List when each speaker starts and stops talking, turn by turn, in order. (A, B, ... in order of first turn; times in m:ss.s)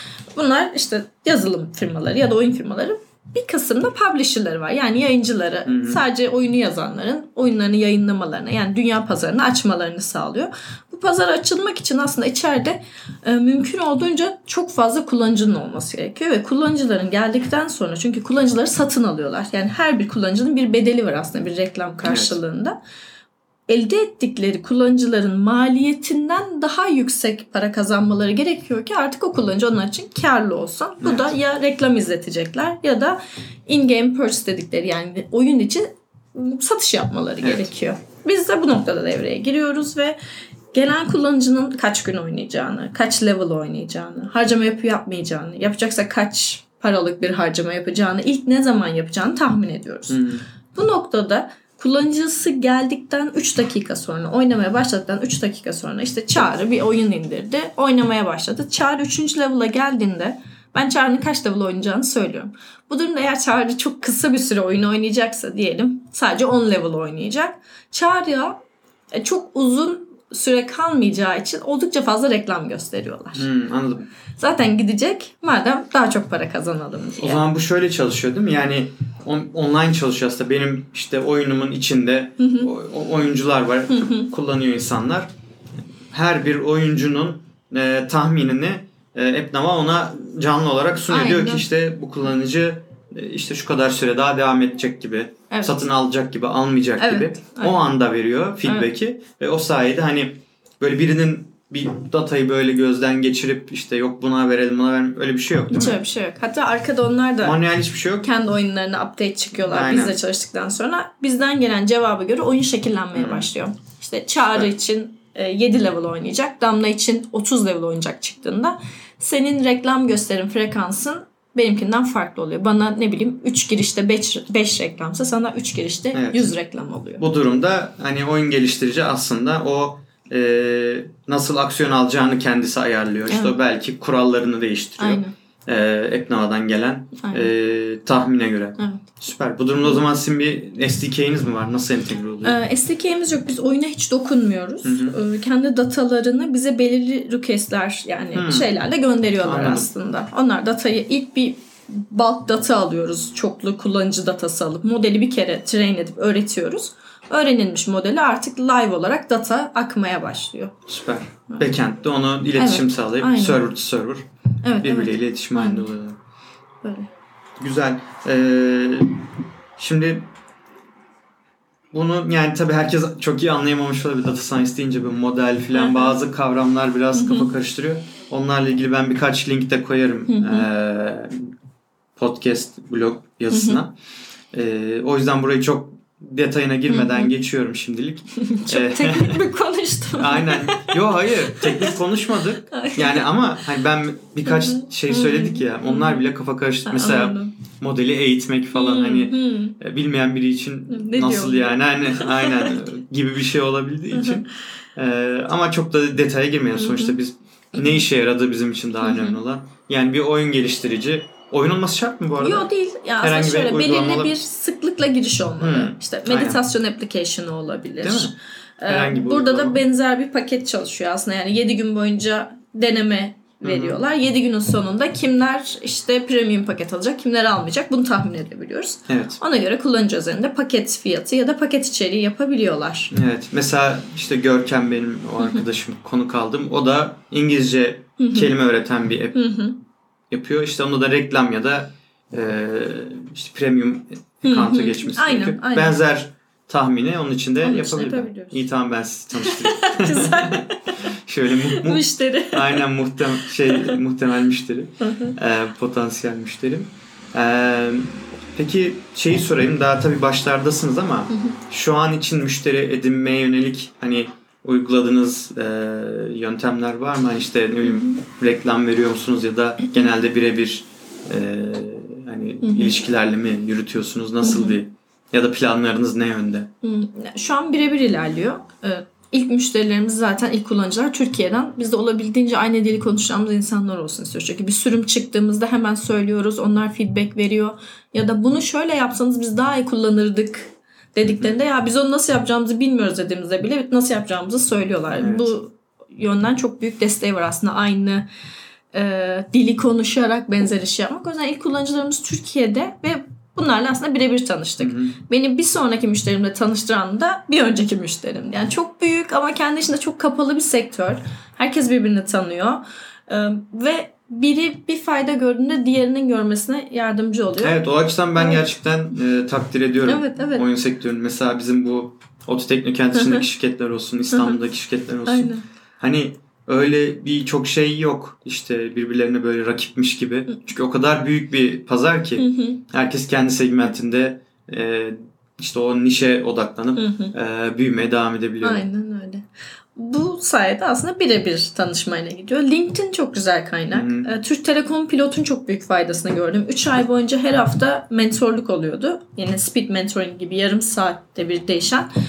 0:00.3-0:22.8 A
0:05.6-0:06.0 B
0:22.0-0:22.4 B
0:23.7-0:40.2 A
0:31.0-0:31.3 B
0:37.4-0:37.7 B
0:40.7-0:50.2 A
0:50.1-0:50.4 B
0:50.7-1:08.6 A
1:09.1-1:13.4 A
1:13.3-1:14.1 B
1:14.4-1:17.4 A
1:17.2-1:25.3 B
1:22.4-1:22.7 A
1:23.9-1:24.3 A
1:26.1-1:46.0 B
1:31.1-1:31.7 A
1:35.5-1:35.8 A
1:37.0-1:37.8 A
1:38.6-1:38.9 A
1:45.7-1:47.6 A
1:47.4-1:48.3 B
1:48.2-2:07.2 A
1:49.6-1:50.1 B
1:53.1-1:53.5 B
2:06.1-2:06.5 B
2:07.2-2:22.6 B
2:13.3-2:13.5 A
2:15.0-2:15.3 A
2:17.2-2:17.5 A
2:22.4-2:40.7 A
2:24.8-2:25.2 B
2:28.3-2:28.7 B
2:29.4-2:29.9 B
2:40.9-2:44.2 B
2:42.5-2:43.6 A
2:44.6-2:45.9 A
2:44.8-2:46.2 B
2:46.8-2:47.1 A
2:47.6-2:49.2 B
2:49.8-2:50.3 B
2:51.9-3:01.5 B
2:55.7-2:56.2 A
2:57.1-2:57.5 A
3:00.3-3:00.7 A
3:02.2-3:03.9 B
3:03.5-3:03.8 A
3:04.5-3:09.4 B
3:06.9-3:07.3 A
3:08.4-3:12.0 A
3:10.2-3:32.7 B
3:12.7-3:13.3 A
3:14.4-3:16.2 A
3:16.8-3:17.5 A
3:18.7-3:19.7 A
3:20.9-3:22.8 A
3:24.1-3:24.4 A
3:26.7-3:27.2 A
3:29.0-3:29.4 A
3:32.4-3:53.1 A
3:33.2-3:34.3 B
3:35.6-3:36.6 B
3:38.0-3:38.3 B
3:38.9-3:39.8 B
3:43.6-3:44.0 B
3:49.1-3:49.4 B
3:53.1-3:59.5 B
3:55.4-3:55.6 A
3:58.2-3:58.5 A
3:59.3-3:59.8 A
4:00.3-4:36.7 B
4:04.4-4:06.0 A
4:07.6-4:08.6 A
4:09.4-4:11.0 A
4:11.7-4:12.9 A
4:13.4-4:14.0 A
4:15.0-4:15.3 A
4:27.8-4:28.2 A
4:32.6-4:32.9 A
4:34.4-4:34.8 A
4:36.8-4:58.3 A
4:51.2-4:51.6 B
4:55.1-4:55.5 B
4:58.9-5:17.8 A
5:04.8-5:05.2 B
5:17.6-5:38.8 B
5:18.4-5:18.6 A
5:20.0-5:20.6 A
5:23.1-5:23.4 A
5:24.3-5:24.6 A
5:25.3-5:25.6 A
5:32.4-5:32.8 A
5:37.0-5:37.3 A
5:38.6-5:52.1 A
5:43.9-5:44.3 B